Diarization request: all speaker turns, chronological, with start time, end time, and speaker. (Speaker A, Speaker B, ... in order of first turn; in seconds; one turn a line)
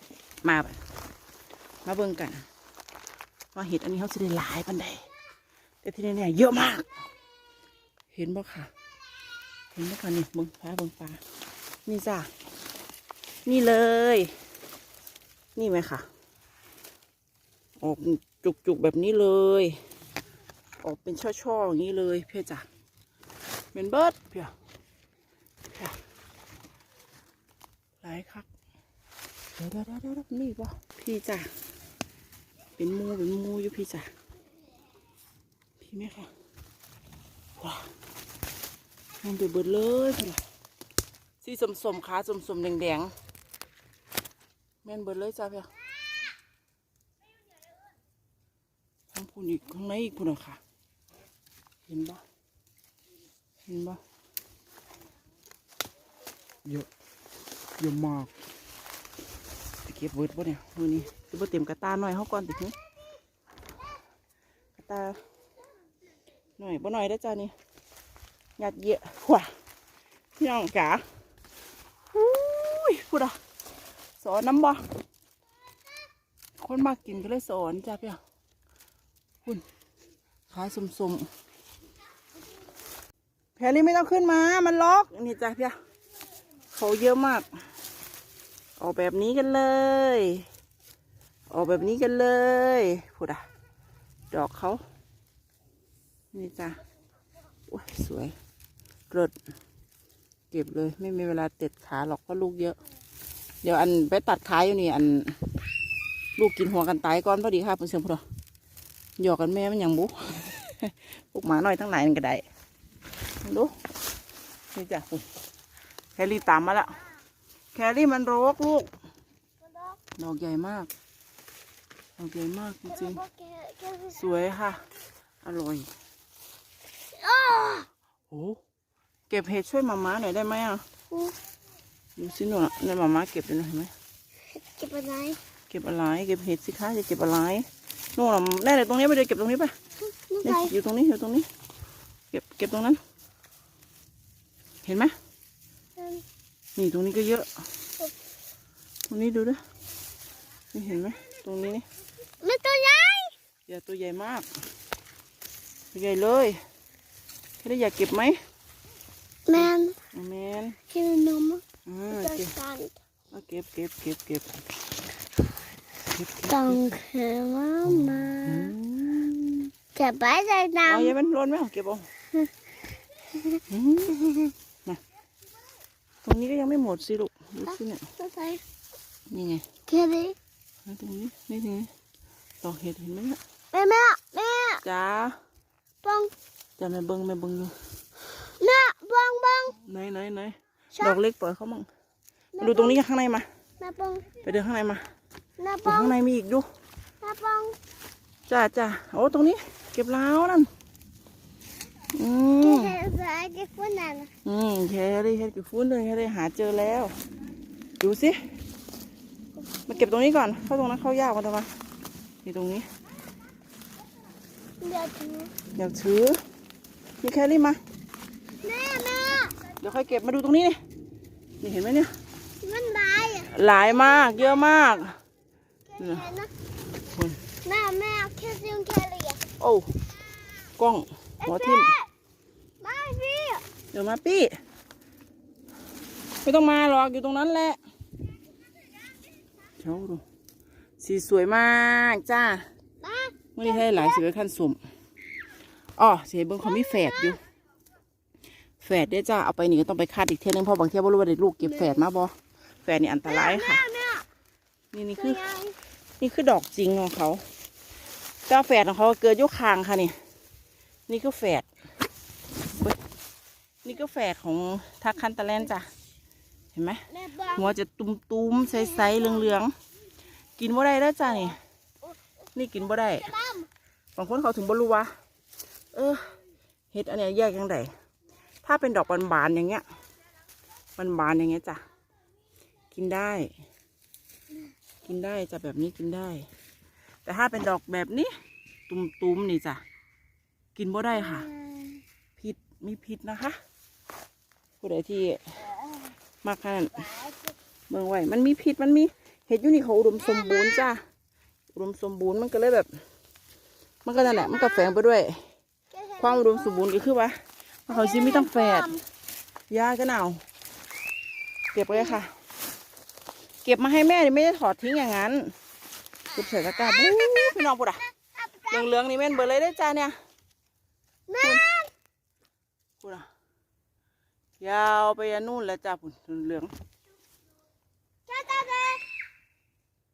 Speaker A: 0.4-0.8
Speaker A: 1.8-2.5
Speaker A: 3.5-5.0
Speaker A: 5.8-6.9
Speaker A: 8.1-8.7
Speaker A: 9.7-11.2
Speaker A: 11.8-12.3
Speaker A: 13.4-14.3
Speaker A: 15.6-16.1
Speaker A: 17.8-19.8
Speaker A: 20.8-22.6
Speaker A: 23.7-24.5
Speaker A: 28.0-28.5
Speaker A: 29.6-31.5
Speaker A: 32.8-34.1
Speaker A: 35.8-36.3
Speaker A: 37.6-37.9
Speaker A: 39.2-40.4
Speaker A: 41.4-43.1
Speaker A: 44.8-45.7
Speaker A: 49.1-50.6
Speaker A: 51.9-52.2
Speaker A: 53.6-54.0
Speaker A: 57.8-58.3
Speaker A: 59.9-62.7
Speaker A: 64.8-65.2
Speaker A: 66.6-67.5
Speaker A: 68.6-69.5
Speaker A: 70.4-71.0
Speaker A: 72.1-73.4
Speaker A: 74.2-74.8
Speaker A: 76.6-78.2
Speaker A: 80.5-81.3
Speaker A: 83.6-85.8
Speaker A: 86.7-87.5
Speaker A: 88.8-90.5
Speaker A: 91.5-93.4
Speaker A: 94.3-94.8
Speaker A: 96.3-96.8
Speaker A: 97.7-98.3
Speaker A: 100.5-102.8
Speaker A: 103.6-105.4
Speaker A: 106.3-108.2
Speaker A: 109.2-112.4
Speaker A: 113.4-113.7
Speaker A: 114.7-115.2
Speaker A: 116.2-117.0
Speaker A: 117.7-118.9
Speaker B: 119.6-120.0
Speaker A: 120.2-120.9
Speaker A: 122.2-123.2
Speaker B: 122.9-124.4
Speaker A: 124.1-124.8
Speaker A: 125.4-125.9
Speaker B: 127.1-127.9
Speaker A: 128.3-128.6
Speaker A: 129.3-130.8
Speaker A: 132.2-133.9
Speaker B: 134.6-135.4
Speaker A: 135.7-139.7
Speaker B: 140.1-140.7
Speaker A: 140.4-141.5
Speaker A: 142.3-143.0
Speaker A: 144.8-145.1
Speaker B: 145.9-146.2
Speaker A: 146.8-147.5
Speaker A: 149.1-149.6
Speaker A: 150.7-151.8
Speaker B: 152.4-153.3
Speaker A: 153.7-154.5
Speaker A: 155.9-156.6
Speaker A: 157.6-158.4
Speaker B: 159.4-159.9
Speaker A: 159.5-160.8
Speaker B: 160.9-162.9
Speaker A: 161.8-162.5
Speaker A: 163.3-164.6
Speaker A: 166.1-166.9
Speaker B: 166.5-168.7
Speaker A: 167.8-169.7
Speaker B: 169.9-171.1
Speaker A: 170.8-172.1
Speaker A: 173.7-175.0
Speaker A: 176.2-178.0
Speaker B: 178.2-178.6
Speaker A: 179.3-179.6
Speaker B: 179.9-180.4
Speaker A: 180.8-181.9
Speaker A: 182.6-183.4
Speaker B: 183.7-184.8
Speaker A: 184.8-185.3
Speaker B: 186.0-186.3
Speaker A: 186.8-187.7
Speaker B: 188.6-189.8
Speaker A: 189.8-191.8
Speaker B: 192.5-193.0
Speaker A: 192.6-193.4
Speaker B: 193.8-194.3
Speaker A: 194.4-195.0
Speaker B: 195.6-196.1
Speaker A: 195.8-196.7
Speaker B: 197.2-197.8
Speaker A: 198.5-200.7
Speaker A: 202.1-202.9
Speaker B: 202.6-204.3
Speaker A: 204.4-207.2
Speaker A: 208.0-208.4
Speaker B: 209.8-210.1
Speaker A: 209.9-211.7
Speaker A: 212.4-212.9
Speaker B: 214.8-215.5
Speaker A: 215.8-216.4
Speaker A: 217.2-217.8
Speaker B: 218.6-219.6
Speaker A: 219.8-220.8
Speaker A: 221.6-222.1
Speaker B: 222.6-225.0
Speaker A: 223.4-225.2
Speaker B: 225.9-226.5
Speaker A: 226.0-226.2
Speaker A: 227.1-227.4
Speaker B: 227.6-229.4
Speaker A: 229.6-229.9
Speaker A: 230.8-231.9
Speaker B: 231.4-232.1
Speaker B: 232.8-233.6
Speaker A: 233.9-234.6
Speaker A: 236.4-237.8
Speaker A: 239.8-240.2
Speaker A: 241.0-242.6
Speaker B: 243.0-244.2
Speaker A: 243.5-244.8
Speaker A: 246.0-247.4
Speaker B: 246.8-247.3
Speaker A: 248.8-253.8
Speaker B: 251.6-252.1
Speaker B: 253.2-254.2
Speaker A: 254.9-255.4
Speaker B: 255.2-255.8
Speaker A: 256.2-257.4
Speaker A: 258.5-260.1
Speaker A: 261.1-261.6
Speaker A: 263.8-265.9
Speaker A: 266.7-267.0
Speaker B: 267.1-267.7
Speaker A: 267.5-269.7
Speaker B: 268.6-269.6
Speaker A: 270.6-271.6
Speaker A: 272.5-273.3
Speaker B: 273.2-273.7
Speaker A: 274.1-275.1
Speaker A: 275.9-276.3
Speaker A: 276.9-277.9
Speaker A: 278.6-279.8
Speaker A: 281.0-281.8
Speaker A: 282.9-283.5
Speaker A: 285.0-286.4
Speaker A: 287.2-288.3
Speaker A: 288.9-289.8
Speaker A: 290.7-291.5
Speaker B: 291.1-292.0
Speaker A: 292.4-293.6
Speaker A: 294.8-295.4
Speaker A: 296.4-297.1
Speaker B: 297.1-297.5
Speaker A: 297.9-301.0
Speaker B: 300.2-300.9
Speaker A: 301.7-302.9
Speaker A: 304.0-305.4
Speaker B: 304.2-304.9
Speaker B: 305.9-306.7
Speaker A: 306.2-308.9
Speaker B: 307.9-309.0
Speaker A: 309.7-310.4
Speaker A: 311.7-312.3
Speaker A: 313.6-315.5
Speaker A: 316.3-318.0
Speaker B: 318.5-318.7
Speaker A: 318.7-320.1
Speaker B: 321.3-321.9
Speaker A: 321.4-321.7
Speaker A: 323.0-323.3
Speaker A: 324.6-326.7
Speaker B: 328.3-329.2